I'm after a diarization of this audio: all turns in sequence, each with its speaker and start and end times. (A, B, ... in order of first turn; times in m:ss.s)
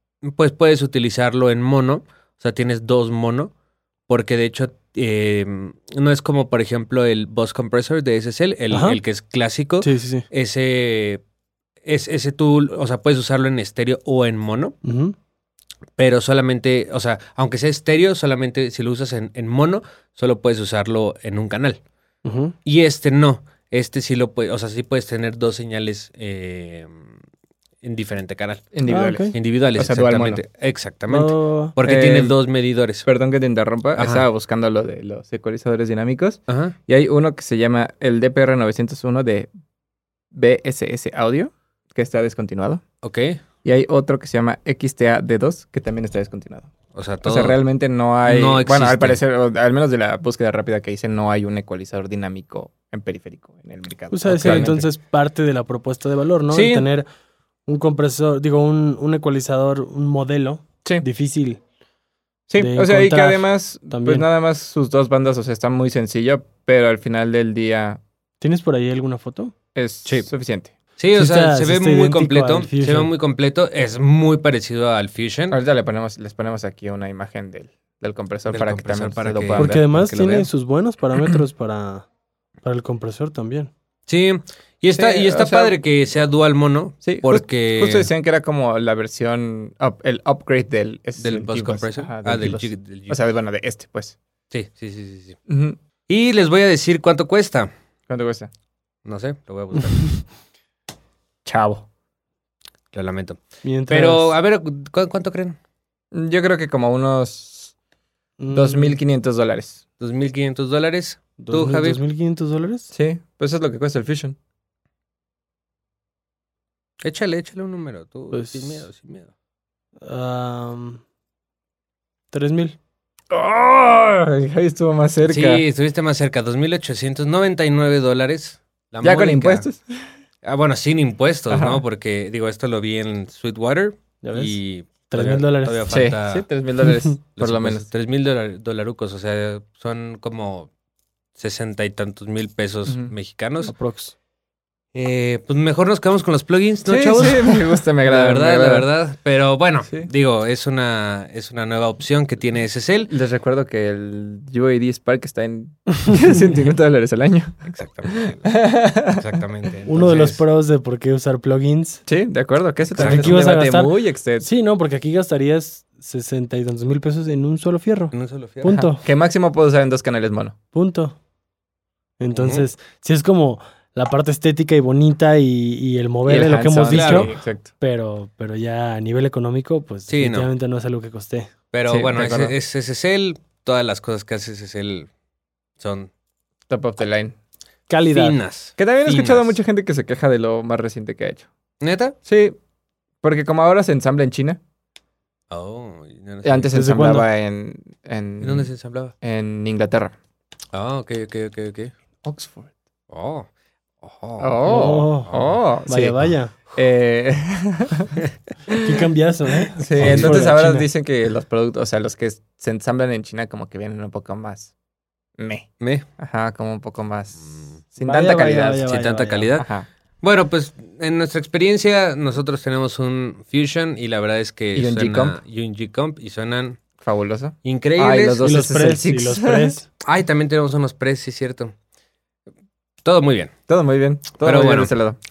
0:00.2-0:03.5 A
0:04.1-0:11.2 A
0:08.7-0:09.0 B
0:09.8-0:10.2 B
0:11.8-0:14.7 A
0:14.8-0:15.1 B
0:16.0-0:21.8 A
0:22.2-0:22.5 B
0:22.6-0:27.1 A
0:27.8-0:28.7 A
0:28.7-0:30.4 C
0:28.9-0:29.3 B
0:29.3-0:33.1 A
0:31.1-0:31.8 B
0:31.8-0:32.4 C
0:33.0-0:39.5 C
0:34.0-0:34.2 A
0:36.5-0:36.8 A
0:40.3-0:42.8 C
0:43.0-0:43.4 A
0:43.6-0:46.7 C
0:46.9-0:47.6 A
0:47.2-0:54.8 C
0:48.2-0:49.2 A
0:54.1-0:57.0 B
0:54.4-0:54.8 A
0:56.5-0:56.8 A
0:57.6-1:01.6 B
1:02.5-1:08.0 C
1:02.6-1:04.2 B
1:08.4-1:09.5 B
1:09.7-1:10.7 C
1:11.0-1:15.6 A
1:11.1-1:13.1 B
1:15.5-1:19.8 C
1:18.5-1:20.5 A
1:19.6-1:22.0 B
1:22.6-1:23.7 B
1:24.1-1:28.1 A
1:24.9-1:25.8 C
1:27.0-1:34.2 C
1:31.2-1:33.2 A
1:34.5-1:35.4 A
1:35.5-1:35.8 C
1:36.1-1:37.7 A
1:38.1-1:38.5 C
1:39.0-1:40.2 A
1:41.4-1:41.8 C
1:42.9-1:45.6 A
1:43.6-1:44.4 B
1:46.1-1:47.7 C
1:48.4-1:49.0 B
1:48.5-1:49.8 C
1:50.0-1:52.0 A
1:51.4-1:52.9 B
1:52.9-1:54.4 C
1:57.0-1:59.3 A
1:58.3-1:58.8 B
2:00.0-2:01.0 B
2:02.3-2:02.8 B
2:03.3-2:05.6 C
2:05.3-2:09.6 A
2:09.0-2:09.8 C
2:10.4-2:16.4 A
2:11.5-2:11.8 C
2:14.2-2:14.6 B
2:15.1-2:16.0 B
2:15.9-2:17.8 C
2:16.8-2:17.1 B
2:17.4-2:20.7 A
2:21.4-2:23.7 A
2:22.8-2:23.1 C
2:23.6-2:24.1 B
2:24.9-2:27.4 A
2:26.9-2:28.9 C
2:28.0-2:33.1 A
2:33.1-2:39.2 C
2:37.6-2:38.5 A
2:39.1-2:40.4 A
2:39.9-2:42.0 B
2:42.1-2:44.5 C
2:43.0-2:49.0 B
2:43.0-2:43.4 A
2:48.1-2:48.8 A
2:48.7-2:50.6 C
2:50.7-2:51.2 B
2:52.2-3:01.5 B
2:52.3-2:52.7 A
2:56.2-2:57.7 C
2:56.9-2:57.3 A
3:00.1-3:00.5 A
3:01.7-3:05.1 A
3:01.9-3:02.5 C
3:05.8-3:06.1 A
3:06.7-3:07.4 C
3:07.9-3:08.4 B
3:08.1-3:09.6 A
3:08.8-3:11.5 C
3:11.8-3:12.1 A
3:12.2-3:12.6 C
3:13.2-3:14.6 C
3:15.5-3:16.7 A
3:16.4-3:18.7 C
3:16.7-3:17.3 B
3:18.4-3:19.1 A
3:19.2-3:20.1 C
3:20.7-3:21.9 A
3:22.2-3:22.7 C
3:23.1-3:23.5 A
3:24.0-3:24.6 A
3:24.4-3:26.2 C
3:24.6-3:25.3 B
3:25.2-3:25.6 A
3:25.8-3:26.5 B
3:26.7-3:28.2 C
3:28.7-3:29.0 C
3:28.8-3:30.8 B
3:29.8-3:34.7 C
3:30.0-3:30.5 A
3:35.4-3:38.9 C
3:35.8-3:36.0 A
3:37.5-3:37.8 A
3:38.0-3:39.5 B
3:38.9-3:39.7 A
3:39.6-3:39.9 C
3:40.2-3:46.8 A
3:44.7-3:45.4 C
3:47.0-3:49.8 C
3:47.6-3:48.5 A
3:48.4-3:49.9 B
3:50.0-3:51.7 A
3:53.0-3:53.5 A
3:53.7-3:55.2 C
3:54.4-3:54.9 A